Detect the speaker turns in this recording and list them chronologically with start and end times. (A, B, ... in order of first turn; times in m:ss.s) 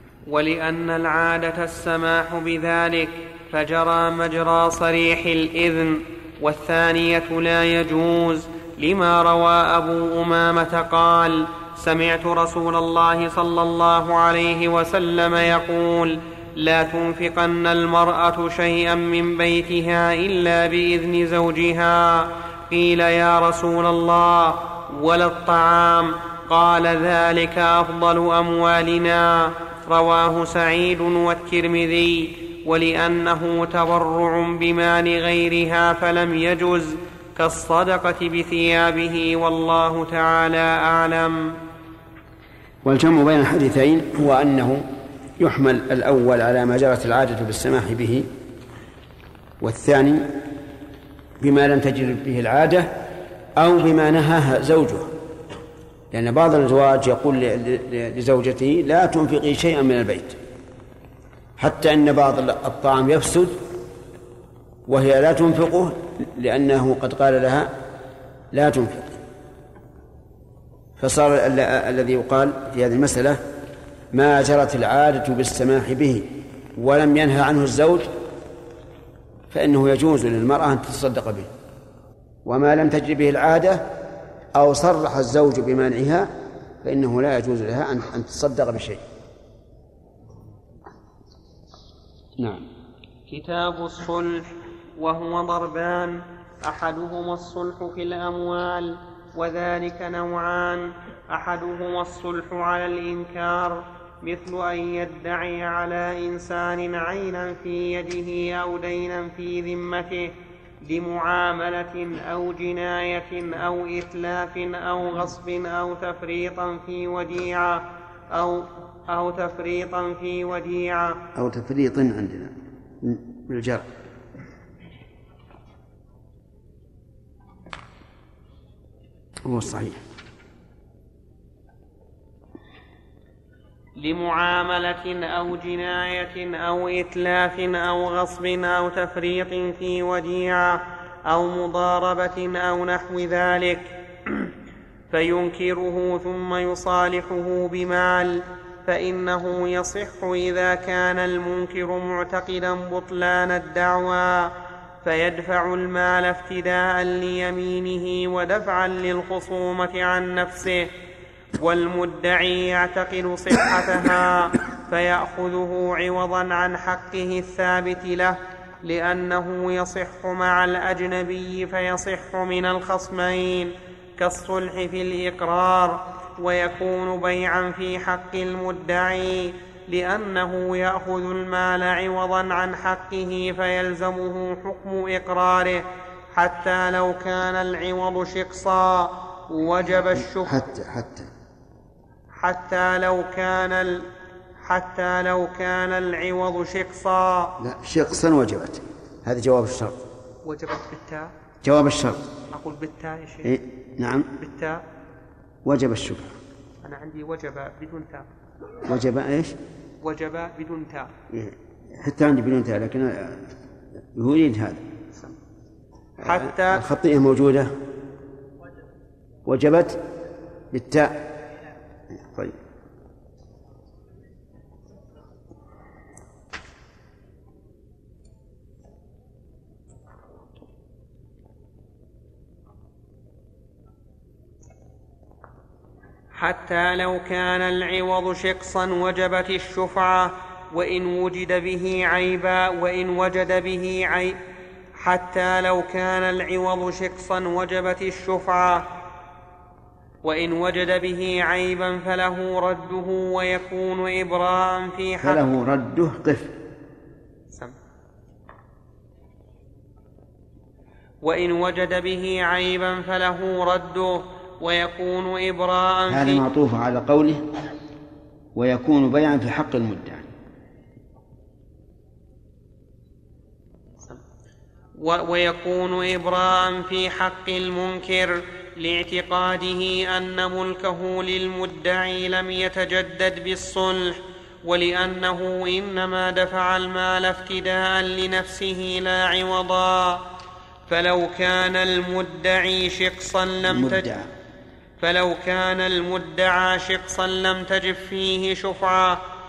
0:00.3-0:41.4 A
0:42.8-0:44.8 B
0:45.4-0:48.3 B
0:49.6-0:50.3 B
0:51.4-0:52.9 B
0:53.6-0:55.1 B
0:56.1-1:00.4 B
1:01.6-1:03.6 B
1:04.9-1:07.7 B
1:08.5-1:09.2 B
1:11.0-1:13.4 B
1:14.1-1:18.1 B
1:19.5-1:21.5 B
1:22.4-1:23.8 B
1:24.5-1:26.3 B
1:26.8-1:29.0 B
1:32.4-1:32.6 B
1:33.3-1:50.3 A
1:50.8-2:01.2 A
2:01.3-2:03.9 B
2:09.4-2:10.0 B
2:14.0-2:23.9 A
2:25.1-2:34.5 A
2:35.0-2:40.9 A
2:41.6-3:05.8 A
3:06.3-3:10.7 A
3:10.1-3:11.3 B
3:12.4-3:14.0 A
3:14.6-3:17.5 A
3:17.6-3:20.0 B
3:20.4-3:21.3 A
3:21.6-3:22.2 B
3:22.5-3:23.5 A
3:23.4-3:24.3 B
3:24.4-3:24.8 A
3:25.6-3:26.4 B
3:26.8-3:28.3 A
3:28.8-3:29.6 B
3:30.0-3:31.1 A
3:31.3-3:33.5 B
3:34.1-3:34.8 B
3:36.2-3:37.7 B
3:36.2-3:36.8 A
3:39.4-3:40.0 B
3:40.7-3:41.1 B
3:42.1-3:42.6 B
3:56.3-4:04.4 A
4:05.0-4:08.8 A
4:10.2-4:15.4 A
4:15.2-4:16.5 B
4:21.2-4:26.4 A
4:26.1-4:27.4 B
4:28.5-4:30.2 B
4:35.0-4:50.2 A
4:50.9-4:54.0 A
4:53.6-4:54.3 B
4:55.0-4:59.2 A